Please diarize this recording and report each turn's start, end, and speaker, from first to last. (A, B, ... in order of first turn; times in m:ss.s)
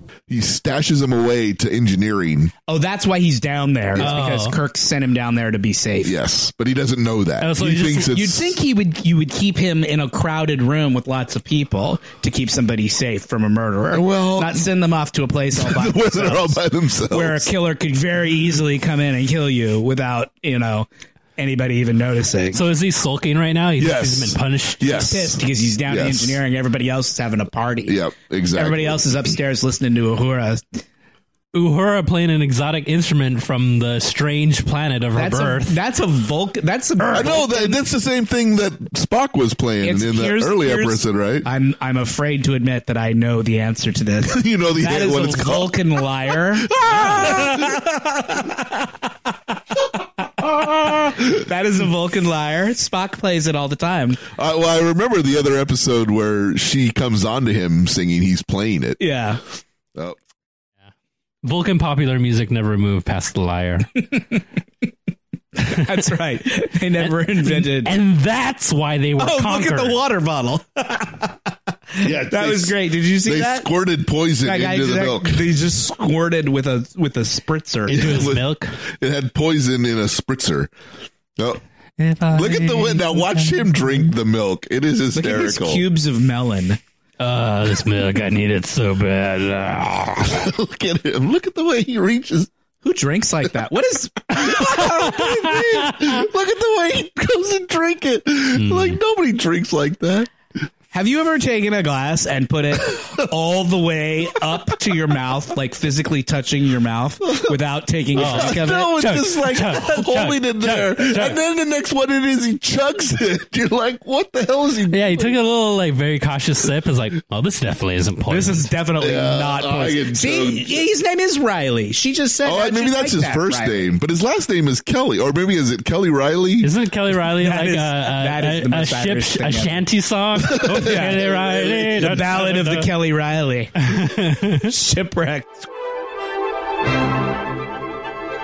0:00.3-0:02.5 A
0:02.7-0:06.1 B
0:04.0-0:04.6 C
0:06.0-0:08.6 A
0:07.4-0:08.2 C
0:08.0-0:22.6 B
0:13.9-0:14.7 A
0:15.5-0:17.5 A
0:22.5-0:25.2 C
0:23.8-0:26.4 A
0:24.9-0:30.6 B
0:27.9-0:29.0 A
0:31.5-0:35.8 C
0:35.2-0:37.8 B
0:37.0-0:41.5 A
0:39.8-0:48.6 B
0:44.3-0:47.8 A
0:50.4-0:54.2 B
0:50.6-0:51.2 A
0:54.3-0:59.0 A
0:59.0-0:59.4 B
1:01.4-1:03.9 C
1:05.6-1:07.9 B
1:07.0-1:10.0 C
1:09.2-1:11.4 B
1:12.0-1:13.7 B
1:12.0-1:15.5 A
1:14.4-1:18.3 B
1:17.9-1:18.8 C
1:17.9-1:20.7 A
1:22.0-1:24.1 C
1:22.3-1:25.8 A
1:25.2-1:26.8 B
1:27.2-1:30.4 C
1:30.3-1:32.5 A
1:32.8-1:35.2 B
1:34.3-1:40.3 A
1:38.5-1:39.0 C
1:40.9-1:48.9 B
1:47.3-1:47.5 A
1:48.1-1:55.3 A
1:48.1-1:51.4 C
1:54.9-1:58.7 C
1:58.3-2:04.0 B
1:59.0-2:00.8 A
2:02.4-2:06.7 A
2:06.6-2:12.9 C
2:07.4-2:09.8 B
2:10.5-2:11.6 A
2:10.6-2:13.9 B
2:13.8-2:14.7 C
2:14.6-2:15.6 B